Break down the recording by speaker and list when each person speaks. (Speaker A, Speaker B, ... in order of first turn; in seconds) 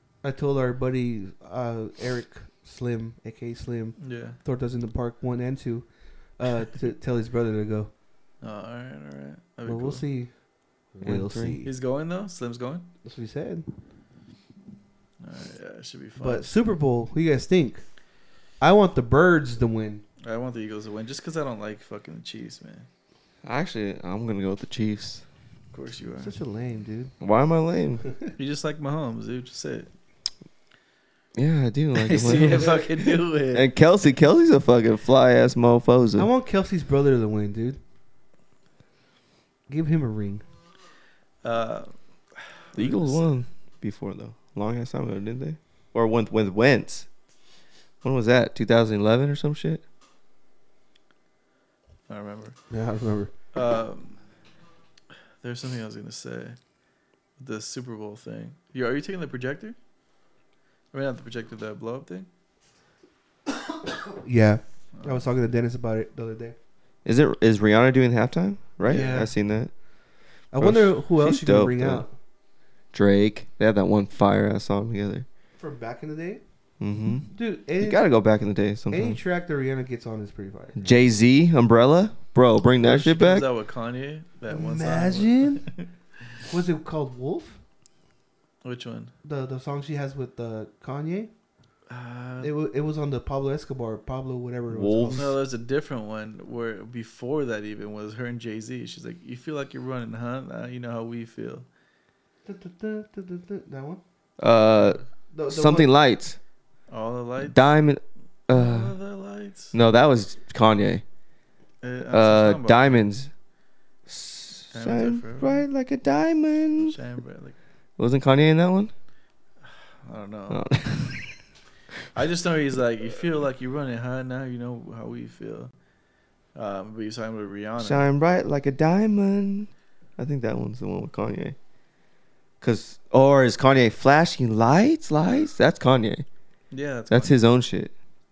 Speaker A: 0.2-7.9, 9.7-10.3, 10.9-11.7, 13.0-13.7, 16.2-17.8, 18.6-20.0, 26.2-27.1, 36.1-37.8, 39.7-40.4, 52.7-53.3, 64.0-66.5, 68.9-69.3, 70.5-72.1, 75.6-76.4, 77.2-78.0, 78.9-80.8, 84.5-85.6, 86.5-87.6, 89.2-91.3, 92.4-95.3, 102.4-104.0, 105.3-105.9
Speaker B: 4.0-4.4, 8.4-10.0, 11.6-12.9, 15.2-16.5, 20.2-22.9, 25.7-26.3, 28.3-29.9, 31.9-33.7, 41.4-41.9, 42.7-43.3, 52.1-52.5, 53.5-54.2, 55.4-56.6, 57.4-59.8, 60.9-62.3, 64.9-65.2, 82.8-85.9, 88.6-89.1, 91.9-92.5, 95.1-101.7, 106.9-107.6, 108.5-109.7, 111.8-113.0, 114.7-115.6, 116.8-117.5, 119.7-120.6, 122.1-125.7, 126.5-128.1, 136.7-137.3
Speaker C: 11.0-11.6, 23.4-25.2, 27.2-28.1, 31.3-36.3, 42.8-47.1, 48.0-49.8, 67.0-69.7, 70.6-72.0, 72.9-75.2, 76.8-77.3, 77.8-79.2, 80.8-83.5, 94.7-95.3, 104.4-106.4, 107.4-109.0, 109.7-111.0, 112.1-113.3, 114.1-117.0, 118.0-118.9, 120.5-121.3, 127.8-131.6, 132.6-136.2, 137.1-137.9